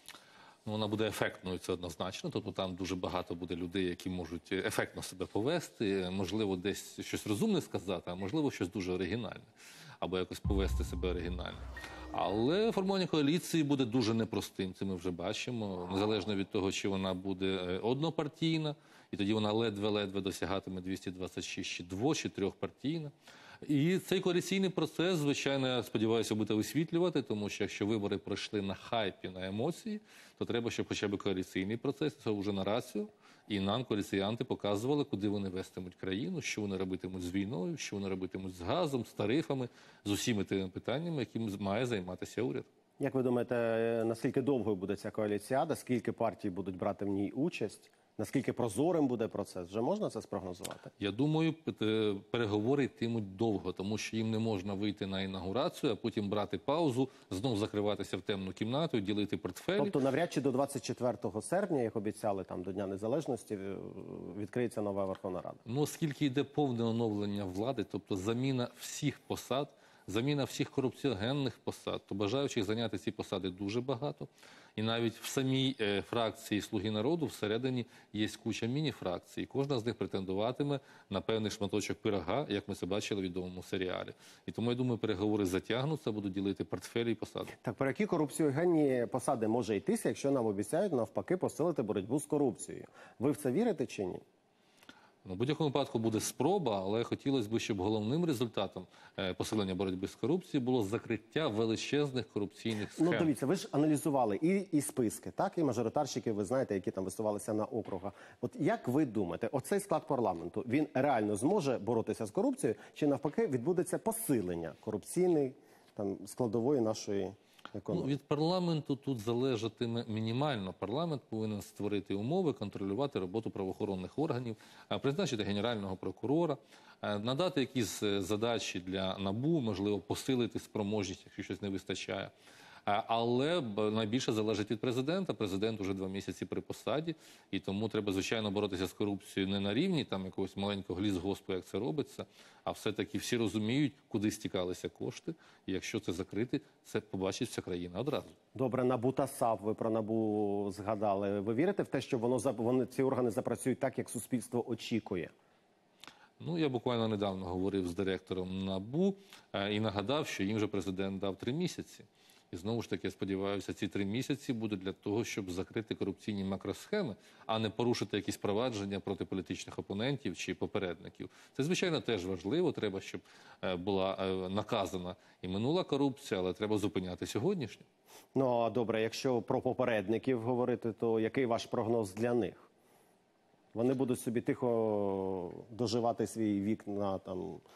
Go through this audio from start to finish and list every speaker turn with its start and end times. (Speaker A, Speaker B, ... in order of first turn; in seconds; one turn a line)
Speaker A: 0.6-9.5
Speaker A: 10.0-42.7
Speaker B: 43.0-50.9
Speaker A: 51.0-60.0
Speaker B: 59.8-65.6
Speaker A: 65.7-87.5
Speaker B: 87.6-94.2
Speaker A: 95.2-103.3
Speaker B: 102.9-118.1
Speaker A: 117.9-132.3
Speaker A: 132.9-148.3
Speaker B: 148.5-155.3
Speaker A: 156.4-177.8
Speaker B: 178.3-182.7
Speaker B: 183.7-187.6